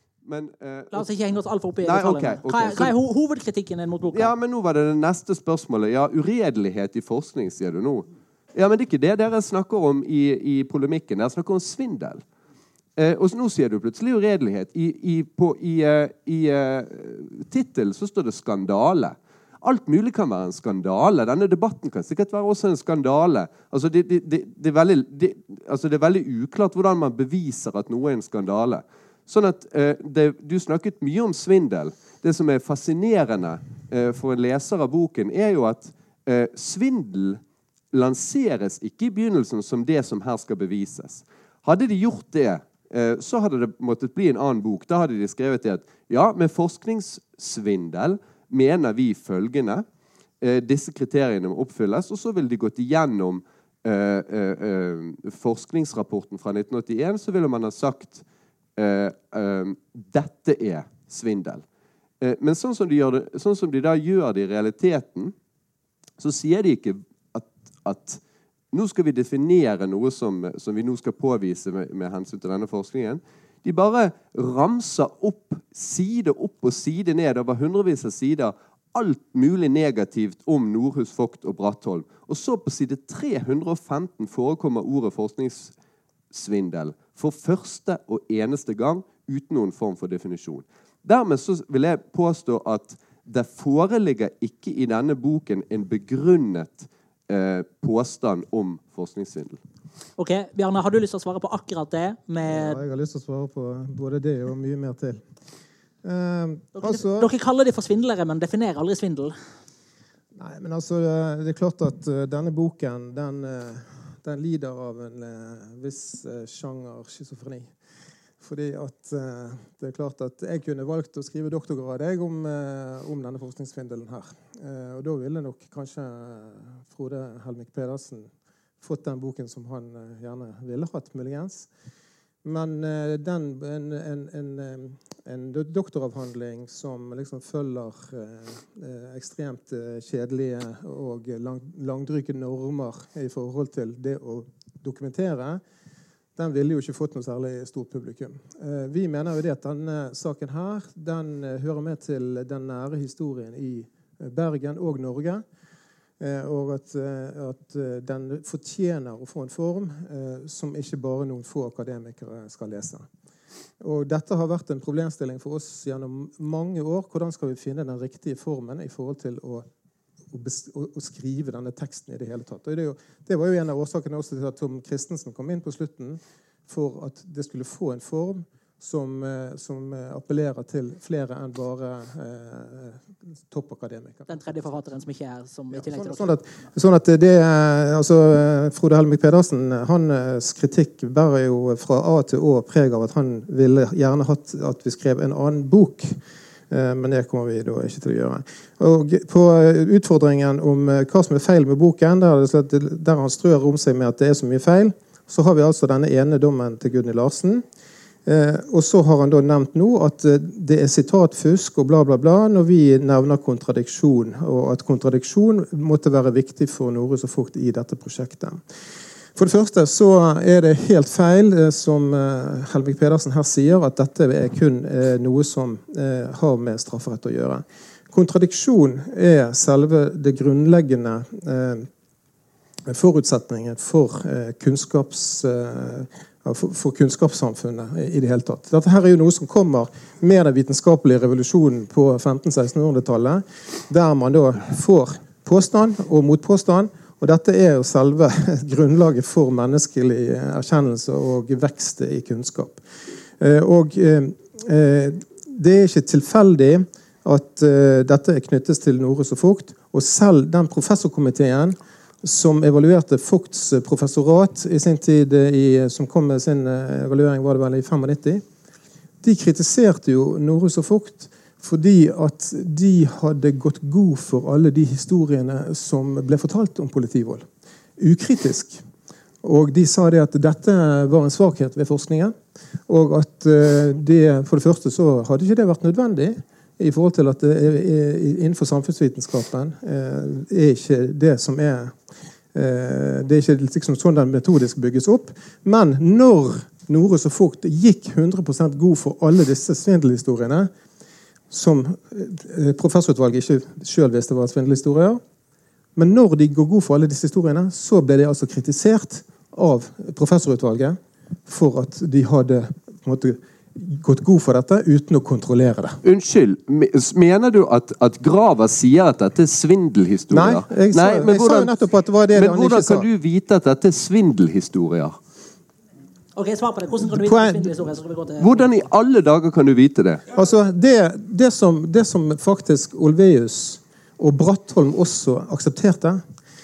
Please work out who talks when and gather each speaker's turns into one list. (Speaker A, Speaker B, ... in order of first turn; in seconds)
Speaker A: 0.2-1.1, 1.8-2.9, 4.1-12.2, 13.0-37.4, 37.9-49.8, 50.4-58.2, 58.8-61.6, 62.2-65.3, 66.2-68.2, 68.7-85.7, 86.3-99.6, 316.0-325.2, 328.4-330.2
Speaker B: 0.9-4.3, 100.2-102.8, 106.7-109.3, 184.3-186.4, 326.4-328.7
Speaker C: 102.4-105.2, 106.0-107.3, 110.3-117.7, 118.4-128.3, 128.8-131.7, 132.4-145.6, 146.3-155.4, 156.2-163.1, 163.8-169.7, 170.3-184.5, 185.7-196.2, 196.7-207.6, 208.2-218.6, 219.3-231.9, 232.9-252.8, 253.4-268.4, 269.2-277.5, 278.0-278.8, 279.4-292.0, 292.5-300.7, 301.5-305.2, 305.9-316.0, 320.3-323.1, 327.0-327.7, 330.3-336.2